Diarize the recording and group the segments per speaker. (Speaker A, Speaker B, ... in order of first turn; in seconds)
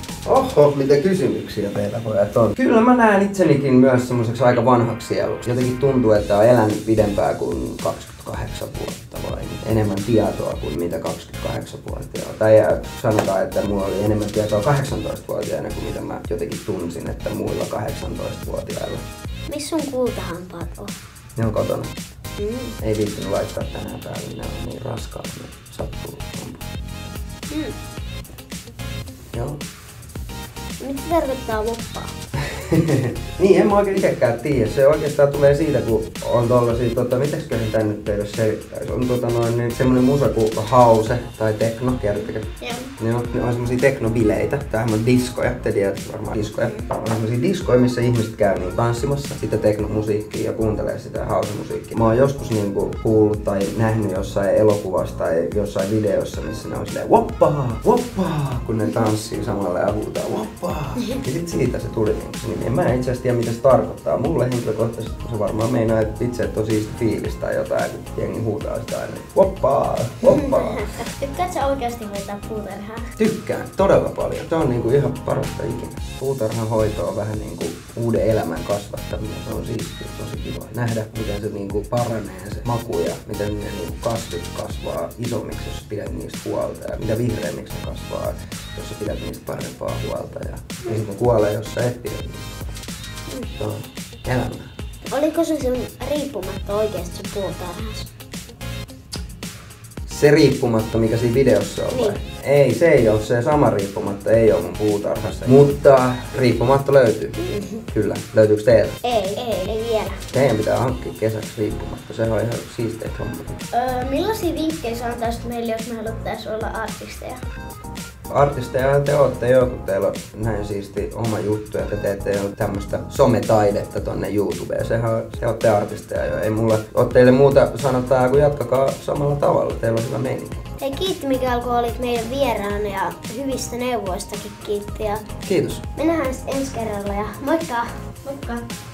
Speaker A: 0.2-19.0, 21.4-21.9, 22.8-26.6, 29.3-29.6, 32.6-70.9, 73.2-92.8, 93.6-94.7, 100.0-107.4, 107.9-109.0, 110.3-113.6, 118.3-130.6, 135.4-135.8
Speaker B: 19.5-20.9, 22.4-22.8, 27.5-27.8, 30.8-32.1, 70.8-71.0, 95.0-98.1, 101.9-102.2, 107.4-107.8, 109.0-110.2, 130.8-135.2, 136.0-138.0
Speaker C: 42.6-42.9, 71.2-73.1, 109.4-109.8, 113.7-117.4, 138.2-138.7